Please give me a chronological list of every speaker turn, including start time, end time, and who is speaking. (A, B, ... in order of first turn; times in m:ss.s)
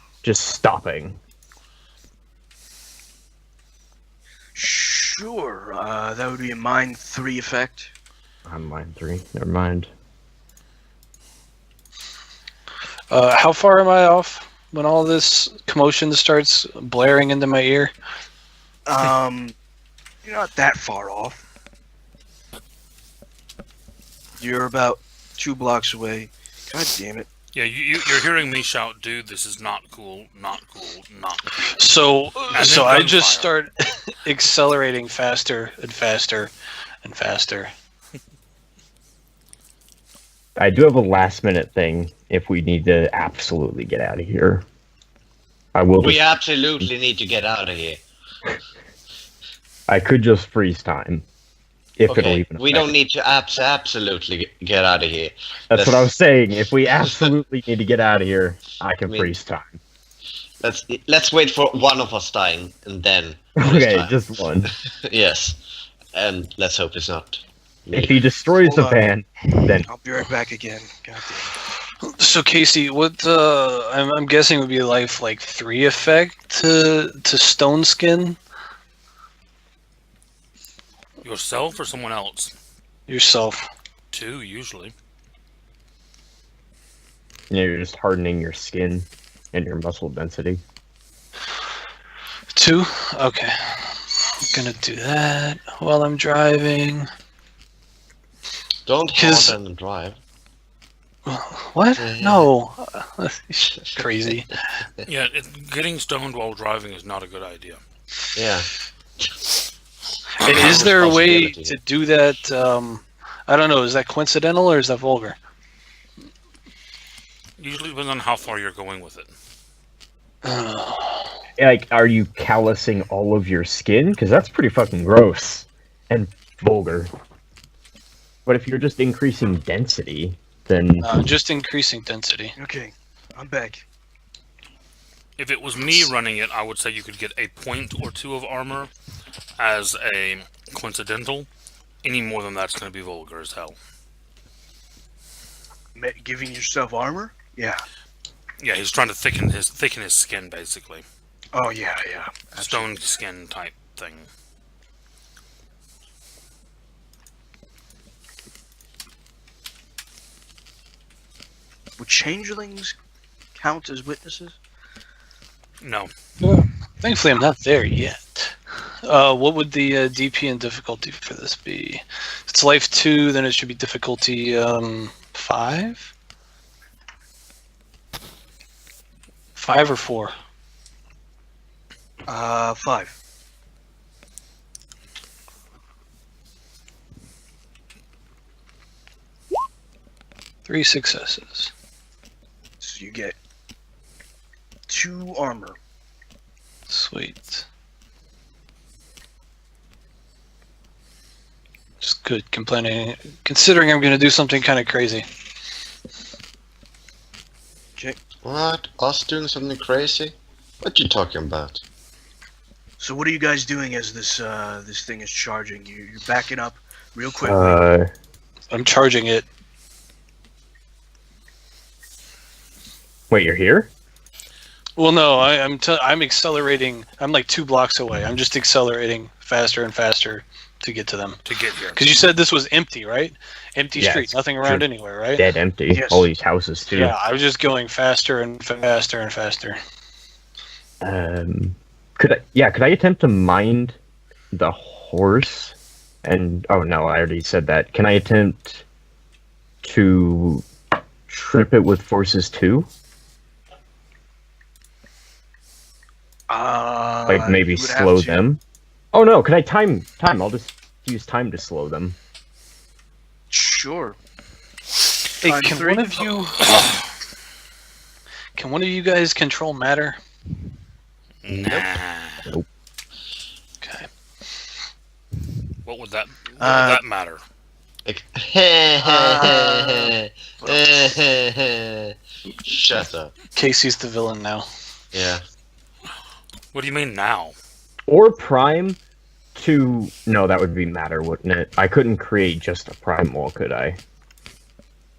0:00.2-0:01.2 A
0:04.6-0:07.9 B
0:08.4-0:09.9 A
0:13.1-0:17.9 C
0:18.8-0:19.5 B
0:20.2-0:21.4 B
0:24.4-0:27.3 B
0:27.5-0:31.7 D
0:31.6-0:37.7 C
0:32.5-0:33.5 D
0:40.6-0:44.6 A
0:45.7-0:46.2 A
0:46.0-0:48.0 E
0:49.9-0:51.2 A
0:52.0-0:52.9 A
0:52.1-0:56.0 E
0:55.7-0:59.8 A
0:59.1-0:59.3 E
1:00.6-1:05.6 E
1:03.6-1:04.7 A
1:06.1-1:08.1 E
1:07.9-1:09.9 A
1:08.6-1:09.0 B
1:09.7-1:11.5 B
1:12.0-1:18.4 C
1:21.2-1:22.5 D
1:23.1-1:23.6 C
1:24.1-1:24.9 D
1:27.5-1:30.6 A
1:32.5-1:37.1 C
1:38.8-1:40.2 E
1:39.2-1:39.6 C
1:41.2-1:44.5 C
1:42.0-1:42.5 E
1:45.1-1:47.8 D
1:48.3-1:48.7 E
1:50.4-1:55.4 C
1:50.4-1:51.8 E
1:57.6-1:59.3 D
2:00.4-2:01.3 C
2:01.6-2:07.1 A
2:08.4-2:11.2 A
2:11.0-2:12.5 C
2:12.6-2:13.8 B
2:15.4-2:18.9 D
2:19.6-2:21.5 D
2:22.0-2:23.8 D
2:25.9-2:27.8 B
2:28.6-2:31.0 D
2:31.5-2:32.9 B
2:32.6-2:34.3 D
2:42.0-2:42.9 B
2:43.6-2:44.6 B
2:45.8-2:46.1 D
2:46.4-2:56.1 C
2:59.6-3:00.3 C
3:02.3-3:03.2 B
3:10.6-3:11.7 C
3:12.8-3:13.4 B
3:14.9-3:15.8 B
3:16.9-3:17.6 C
3:22.0-3:25.2 C
3:28.4-3:31.8 E
3:33.0-3:37.8 B
3:37.4-3:38.1 A
3:38.7-3:39.5 C
3:43.3-3:43.9 A
3:45.0-3:55.5 C
3:51.4-3:52.1 D
3:54.0-3:57.1 A
3:55.9-3:56.3 B
3:56.8-3:59.8 C
4:01.0-4:04.0 A
4:04.5-4:08.8 A
4:09.8-4:10.6 A
4:11.3-4:12.9 A
4:16.5-4:18.4 B
4:17.3-4:18.6 A
4:19.1-4:22.2 A
4:23.5-4:24.2 B
4:25.4-4:26.8 C
4:25.4-4:26.3 B
4:28.5-4:30.2 C
4:31.4-4:32.5 D
4:31.5-4:31.8 A
4:33.8-4:34.1 C
4:35.8-4:37.4 D
4:36.6-4:37.0 B
4:38.0-4:43.4 E
4:39.0-4:40.8 B
4:43.5-4:44.7 C
4:45.1-4:45.4 E
4:46.7-4:47.6 D
4:48.1-4:49.0 A
4:49.6-4:54.0 A